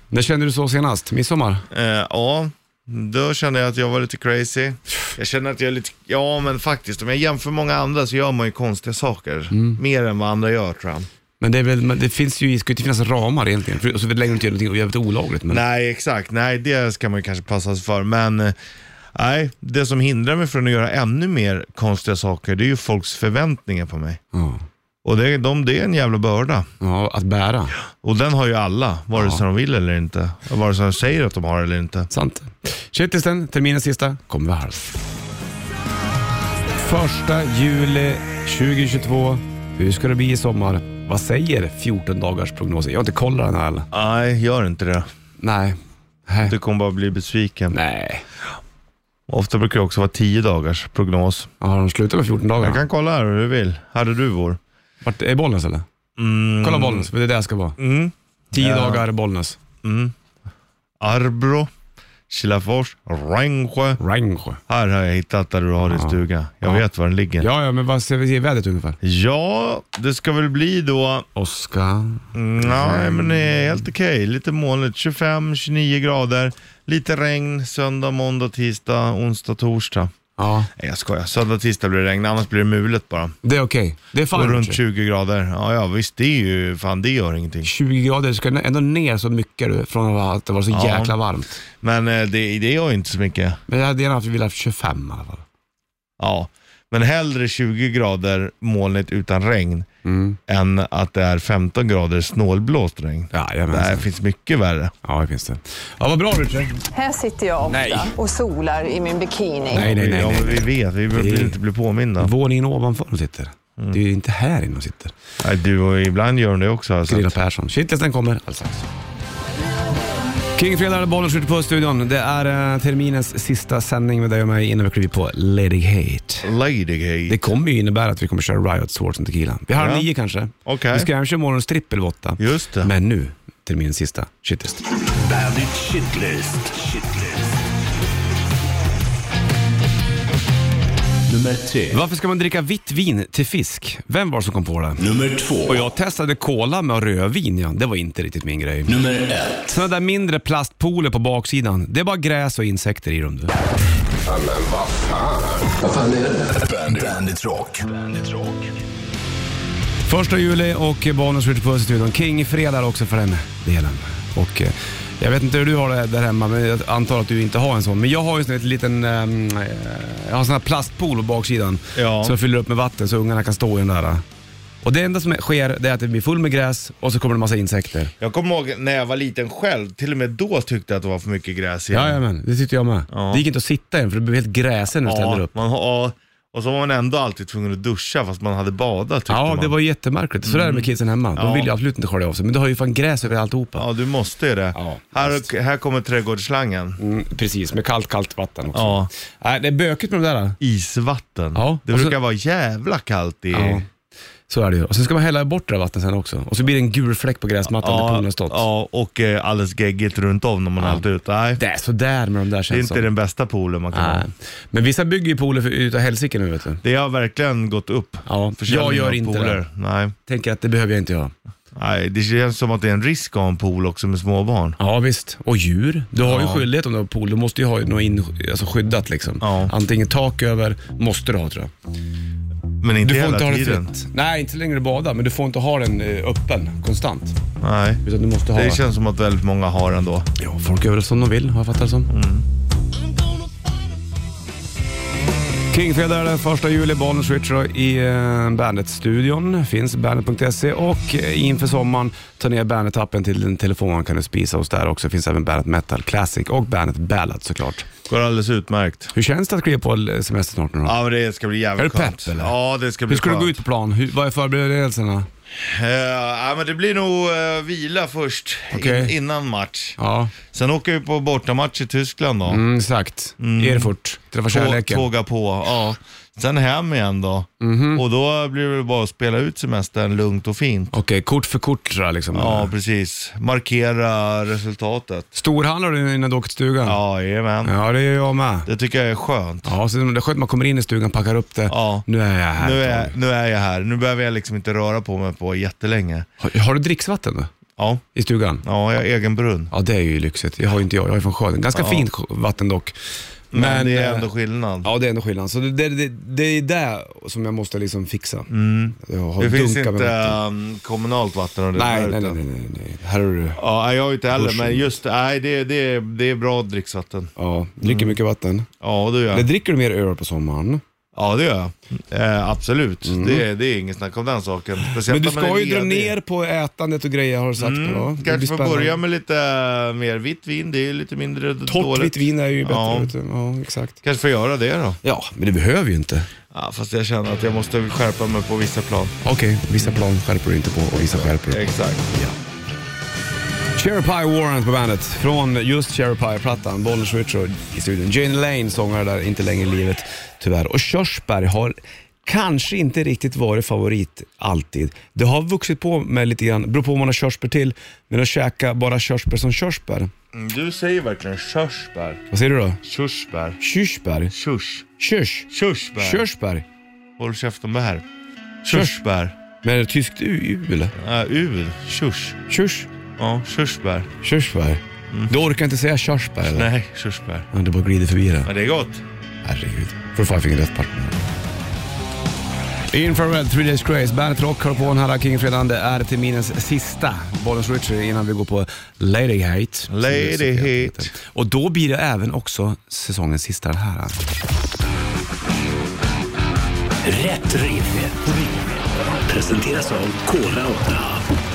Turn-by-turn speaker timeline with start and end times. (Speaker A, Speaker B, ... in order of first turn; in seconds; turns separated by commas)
Speaker A: 0.1-1.6, Speaker B: 1.7-11.1, Speaker A: 9.5-9.8, Speaker A: 11.4-15.6, Speaker B: 15.5-18.6, Speaker B: 19.1-24.2, Speaker A: 24.3-24.6, Speaker B: 25.0-26.7, Speaker A: 26.8-27.8, Speaker B: 28.0-32.1, Speaker A: 29.1-29.4, Speaker A: 32.1-35.0, Speaker A: 36.8-43.9, Speaker B: 43.9-45.1, Speaker A: 45.4-46.5, Speaker B: 46.4-47.8, Speaker A: 47.7-48.3, Speaker B: 49.3-51.5, Speaker A: 51.6-52.8, Speaker B: 52.6-54.6, Speaker A: 55.0-55.9, Speaker B: 56.2-57.1, Speaker A: 56.6-57.8, Speaker B: 57.8-59.0, Speaker A: 58.5-59.6, Speaker B: 59.8-60.1, Speaker B: 61.0-61.7, Speaker B: 62.3-64.0, Speaker A: 64.0-64.6, Speaker B: 64.7-67.5, Speaker A: 65.9-66.8, Speaker A: 67.4-69.0, Speaker B: 69.0-71.3, Speaker A: 71.3-73.7, Speaker B: 72.3-80.1, Speaker A: 80.4-80.7, Speaker B: 80.8-83.3, Speaker A: 83.4-84.8, Speaker B: 84.3-87.7, Speaker A: 87.6-91.5, Speaker B: 90.7-91.2, Speaker B: 91.8-93.6, Speaker A: 93.7-95.4, Speaker B: 96.2-99.9, Speaker A: 100.0-100.4, Speaker B: 100.5-104.9, Speaker A: 103.3-104.1, Speaker A: 105.0-106.8, Speaker C: 106.9-109.9, Speaker A: 107.7-108.2, Speaker A: 109.7-111.6, Speaker B: 109.7-112.3, Speaker A: 112.2-115.1, Speaker B: 115.4-117.3, Speaker A: 117.1-118.9, Speaker A: 120.6-126.5, Speaker B: 126.4-127.4, Speaker A: 127.3-134.8, Speaker B: 129.8-130.1, Speaker B: 130.7-131.1, Speaker B: 132.4-132.9, Speaker D: 135.1-137.6, Speaker D: 141.3-142.0, Speaker A: 141.9-145.0, Speaker D: 145.0-145.8, Speaker A: 145.7-149.0, Speaker D: 148.9-149.7, Speaker A: 149.7-153.5, Speaker D: 154.2-158.8, Speaker A: 160.1-174.2, Speaker B: 172.0-172.4, Speaker A: 174.8-178.1, Speaker B: 178.2-182.2, Speaker A: 181.9-185.5, Speaker B: 183.1-183.4, Speaker B: 185.0-189.7, Speaker A: 189.3-193.9, Speaker B: 190.4-191.7, Speaker B: 193.8-197.0, Speaker A: 194.8-195.5, Speaker A: 197.0-200.6, Speaker B: 198.7-199.1, Speaker B: 200.6-203.8, Speaker A: 201.6-202.2, Speaker A: 203.5-203.9, Speaker A: 204.5-208.7, Speaker B: 207.8-211.6, Speaker A: 210.8-211.0, Speaker A: 211.6-213.1, Speaker B: 212.7-214.3, Speaker A: 213.9-216.8, Speaker B: 216.8-220.1, Speaker A: 218.3-219.6, Speaker A: 220.3-221.3, Speaker B: 221.7-224.8, Speaker A: 224.8-231.7, Speaker B: 226.2-226.7, Speaker B: 229.4-229.7, Speaker B: 232.8-233.9, Speaker A: 233.0-237.4, Speaker B: 237.6-240.3, Speaker A: 238.0-238.8, Speaker A: 240.4-242.1, Speaker B: 242.1-242.4, Speaker A: 245.7-257.9, Speaker B: 258.1-259.1, Speaker A: 259.1-260.9, Speaker B: 260.8-263.6, Speaker A: 261.8-262.5, Speaker A: 263.1-265.3, Speaker B: 265.6-272.6, Speaker A: 268.7-269.1, Speaker A: 270.0-270.3, Speaker A: 272.5-275.1, Speaker B: 273.4-273.9, Speaker B: 274.5-280.9, Speaker A: 277.6-278.0, Speaker A: 280.9-282.7, Speaker B: 282.3-285.3, Speaker A: 285.4-287.0, Speaker B: 286.9-287.7, Speaker A: 287.6-288.7, Speaker B: 288.7-289.7, Speaker A: 289.6-293.1, Speaker B: 291.7-292.1, Speaker B: 292.6-296.3, Speaker A: 296.4-297.5, Speaker B: 297.8-298.0, Speaker A: 298.1-298.6, Speaker B: 298.6-299.7, Speaker A: 299.7-302.9, Speaker B: 301.7-302.1, Speaker A: 303.5-304.3, Speaker B: 303.5-304.9, Speaker A: 304.8-310.4, Speaker B: 308.5-312.4, Speaker A: 311.8-313.6, Speaker B: 313.6-317.3, Speaker A: 314.3-314.9, Speaker A: 317.4-318.7, Speaker B: 317.8-318.2, Speaker B: 318.8-319.5, Speaker A: 319.3-320.8, Speaker B: 321.1-326.1, Speaker A: 323.0-323.4, Speaker A: 324.9-329.0, Speaker B: 327.6-333.1, Speaker A: 331.7-334.0, Speaker B: 334.0-335.0, Speaker A: 335.0-336.3, Speaker B: 336.5-339.2, Speaker A: 339.2-341.6, Speaker B: 341.0-342.1, Speaker A: 343.8-360.1, Speaker B: 360.3-362.2, Speaker A: 362.3-362.8, Speaker B: 362.8-363.6, Speaker A: 363.6-364.3, Speaker B: 364.3-364.9, Speaker A: 365.0-366.6, Speaker B: 365.5-366.2, Speaker B: 367.2-368.1, Speaker B: 368.6-369.4, Speaker A: 368.7-369.0, Speaker A: 369.6-370.9, Speaker B: 371.0-372.4, Speaker A: 372.5-372.9, Speaker B: 373.2-374.1, Speaker A: 374.2-376.7, Speaker B: 376.5-377.5, Speaker A: 377.5-378.5, Speaker B: 378.4-379.0, Speaker A: 379.4-381.2, Speaker A: 382.9-394.2, Speaker B: 389.9-391.1, Speaker D: 397.0-401.2